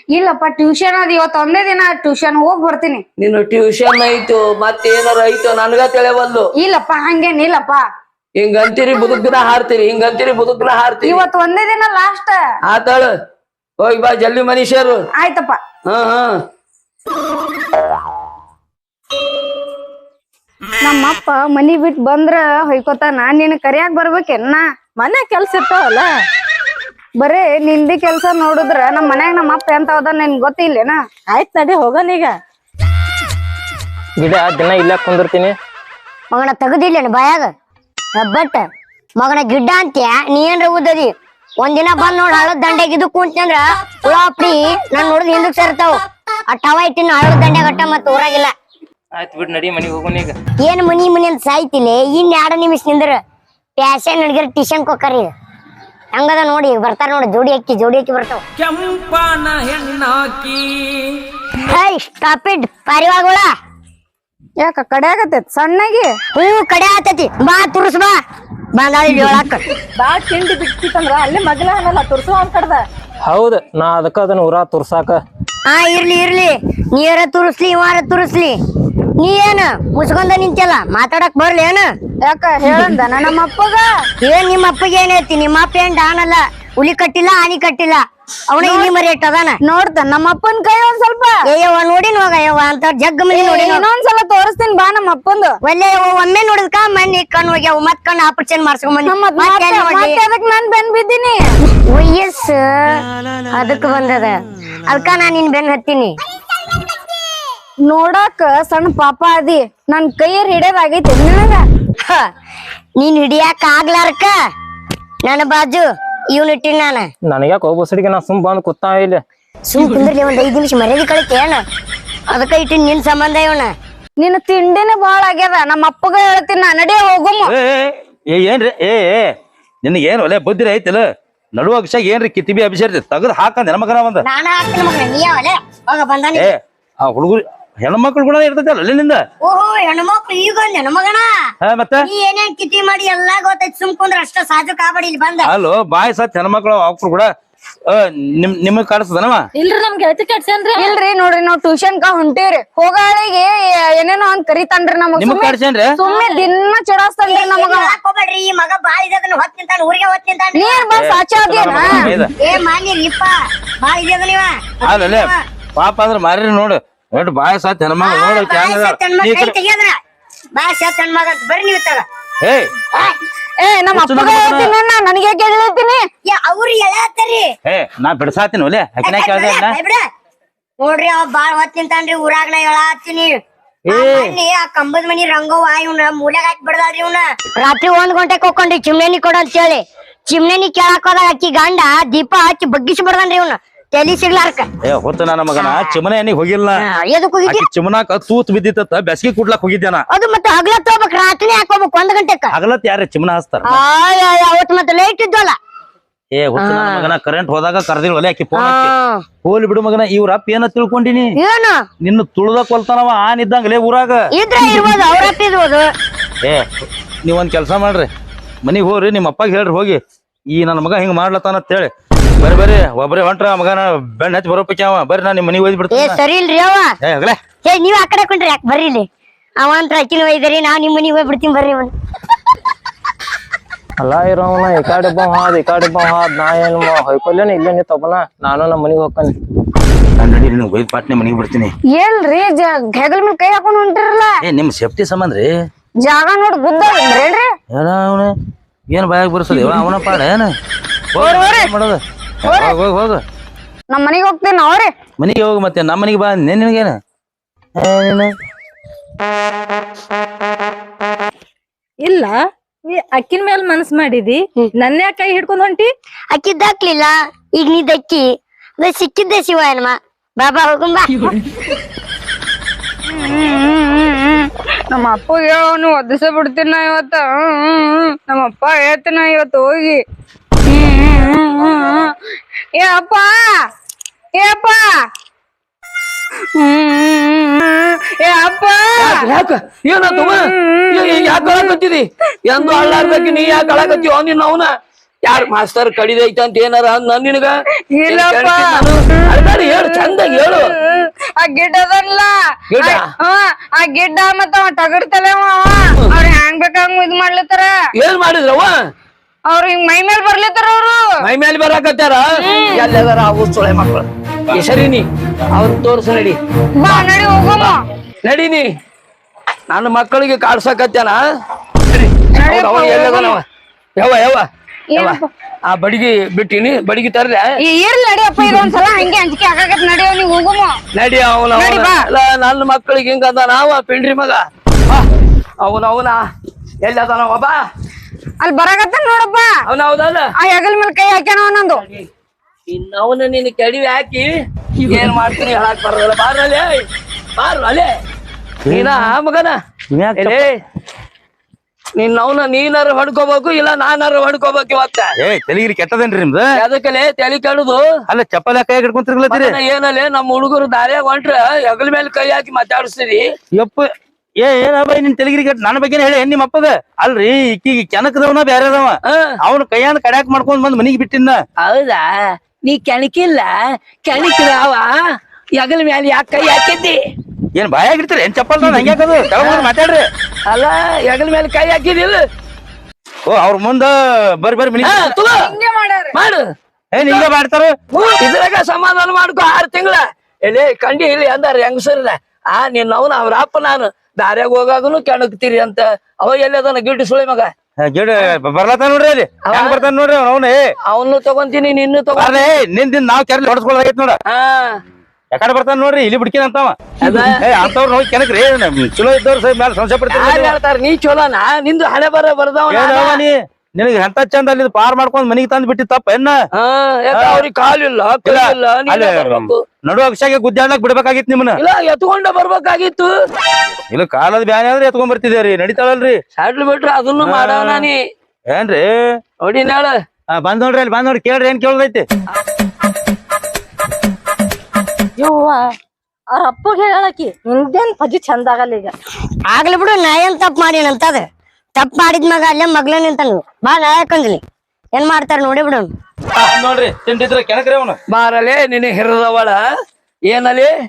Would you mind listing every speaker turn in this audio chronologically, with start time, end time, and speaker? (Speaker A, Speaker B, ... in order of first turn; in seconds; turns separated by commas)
Speaker A: 0.1-3.0, Speaker B: 3.2-6.5, Speaker A: 6.6-7.8, Speaker B: 8.4-11.2, Speaker A: 11.0-12.4, Speaker B: 12.7-13.1, Speaker B: 13.8-15.0, Speaker A: 15.2-15.6, Speaker B: 15.9-16.4, Speaker A: 20.8-24.6, Speaker C: 25.0-26.2, Speaker A: 27.2-31.0, Speaker C: 31.3-32.3, Speaker D: 34.2-35.6, Speaker E: 36.3-37.5, Speaker E: 38.2-38.6, Speaker E: 39.2-48.5, Speaker D: 49.1-50.4, Speaker E: 50.6-53.2, Speaker E: 53.8-55.3, Speaker E: 56.1-58.4, Speaker D: 59.0-60.3, Speaker E: 61.5-63.5, Speaker A: 64.6-66.1, Speaker E: 66.3-68.2, Speaker E: 68.8-69.6, Speaker C: 70.0-72.8, Speaker D: 73.2-75.2, Speaker E: 75.7-78.6, Speaker E: 79.2-81.9, Speaker A: 82.2-83.9, Speaker E: 84.2-89.6, Speaker A: 88.6-88.9, Speaker A: 89.6-91.4, Speaker E: 91.5-93.9, Speaker A: 93.3-95.6, Speaker E: 95.6-100.2, Speaker A: 99.0-101.5, Speaker E: 101.9-106.2, Speaker A: 107.9-111.6, Speaker E: 112.0-112.3, Speaker E: 113.0-114.3, Speaker E: 115.2-117.1, Speaker D: 117.2-119.2, Speaker E: 119.7-121.6, Speaker E: 122.3-123.7, Speaker A: 124.2-127.5, Speaker F: 127.5-129.2, Speaker F: 129.8-134.2, Speaker E: 134.2-136.5, Speaker F: 136.3-139.2, Speaker E: 139.4-141.3, Speaker F: 141.6-142.1, Speaker E: 142.0-145.5, Speaker F: 145.4-147.3, Speaker F: 147.9-149.4, Speaker C: 149.6-150.9, Speaker A: 150.8-157.9, Speaker F: 155.2-155.9, Speaker C: 156.1-156.4, Speaker E: 157.3-160.9, Speaker A: 160.6-162.1, Speaker F: 160.9-162.4, Speaker E: 162.4-165.4, Speaker F: 164.8-169.6, Speaker E: 168.0-170.0, Speaker E: 170.5-172.1, Speaker F: 172.4-172.7, Speaker A: 173.6-176.0, Speaker F: 173.9-174.7, Speaker E: 176.2-177.5, Speaker F: 177.7-179.8, Speaker E: 179.0-180.0, Speaker E: 180.8-183.4, Speaker F: 183.9-184.4, Speaker E: 183.9-194.7, Speaker F: 194.8-196.8, Speaker E: 195.6-196.0, Speaker E: 196.8-197.7, Speaker F: 197.4-200.1, Speaker E: 200.1-202.6, Speaker F: 202.5-203.8, Speaker E: 203.6-205.6, Speaker F: 206.3-208.9, Speaker E: 206.6-207.1, Speaker E: 208.6-209.2, Speaker F: 209.4-211.3, Speaker E: 211.4-211.9, Speaker F: 212.0-214.3, Speaker E: 214.3-215.9, Speaker F: 217.2-218.1, Speaker F: 218.6-220.0, Speaker F: 220.5-226.2, Speaker E: 225.9-226.9, Speaker F: 227.0-227.4, Speaker E: 227.6-229.1, Speaker E: 229.6-231.9, Speaker D: 234.0-239.3, Speaker F: 240.2-241.7, Speaker A: 242.0-244.4, Speaker F: 244.4-245.5, Speaker A: 246.0-247.5, Speaker F: 247.8-248.3, Speaker F: 248.9-250.5, Speaker B: 249.5-249.9, Speaker F: 251.1-253.2, Speaker A: 251.2-251.7, Speaker A: 252.5-252.8, Speaker A: 253.9-254.9, Speaker F: 255.2-257.0, Speaker F: 257.8-258.3, Speaker C: 262.0-265.9, Speaker E: 266.3-268.3, Speaker E: 268.8-271.3, Speaker A: 273.1-280.0, Speaker A: 280.7-282.1, Speaker A: 282.8-283.5, Speaker A: 284.3-285.0, Speaker A: 286.6-289.3, Speaker B: 289.0-294.7, Speaker A: 290.2-291.6, Speaker B: 295.3-300.7, Speaker A: 297.9-298.9, Speaker A: 299.7-307.7, Speaker B: 302.7-303.1, Speaker B: 307.9-308.7, Speaker A: 309.5-311.1, Speaker B: 311.2-317.0, Speaker A: 312.4-312.9, Speaker A: 316.8-317.8, Speaker B: 317.6-318.7, Speaker B: 319.7-321.2, Speaker B: 321.9-323.4, Speaker A: 322.3-323.4, Speaker B: 324.0-327.5, Speaker A: 324.9-325.3, Speaker A: 327.6-330.8, Speaker B: 330.9-335.1, Speaker A: 331.5-332.1, Speaker B: 335.6-336.2, Speaker B: 336.8-337.6, Speaker A: 338.4-339.5, Speaker B: 339.7-340.3, Speaker A: 340.4-341.8, Speaker B: 342.7-346.9, Speaker B: 347.4-347.9, Speaker F: 348.7-349.1, Speaker B: 348.7-349.6, Speaker F: 349.9-350.4, Speaker B: 350.2-350.6, Speaker B: 352.0-355.1, Speaker F: 355.2-356.5, Speaker B: 356.6-357.8, Speaker F: 358.1-359.6, Speaker B: 359.3-363.2, Speaker F: 363.6-363.9, Speaker F: 364.4-371.4, Speaker B: 371.6-372.1, Speaker B: 372.6-374.9, Speaker B: 375.6-377.0, Speaker F: 377.6-380.1, Speaker B: 378.6-379.7, Speaker B: 380.5-382.2, Speaker F: 383.3-385.2, Speaker B: 384.8-385.6, Speaker A: 385.4-386.1, Speaker B: 386.1-386.4, Speaker F: 386.9-387.8, Speaker B: 388.2-397.5, Speaker F: 397.8-400.6, Speaker B: 399.5-399.9, Speaker B: 400.9-402.5, Speaker F: 402.1-404.2, Speaker B: 404.3-404.8, Speaker F: 405.3-410.6, Speaker B: 407.0-407.7, Speaker B: 410.1-413.2, Speaker F: 412.7-416.4, Speaker B: 416.6-419.6, Speaker F: 417.1-417.5, Speaker F: 418.2-421.6, Speaker B: 421.6-423.1, Speaker F: 423.9-426.2, Speaker B: 426.4-428.0, Speaker F: 427.2-427.9, Speaker F: 428.5-429.2, Speaker B: 429.4-429.9, Speaker F: 430.4-432.1, Speaker C: 435.2-435.7, Speaker C: 436.3-438.9, Speaker E: 439.4-444.4, Speaker E: 444.9-445.9, Speaker F: 446.4-448.0, Speaker B: 448.1-449.6, Speaker B: 450.3-450.7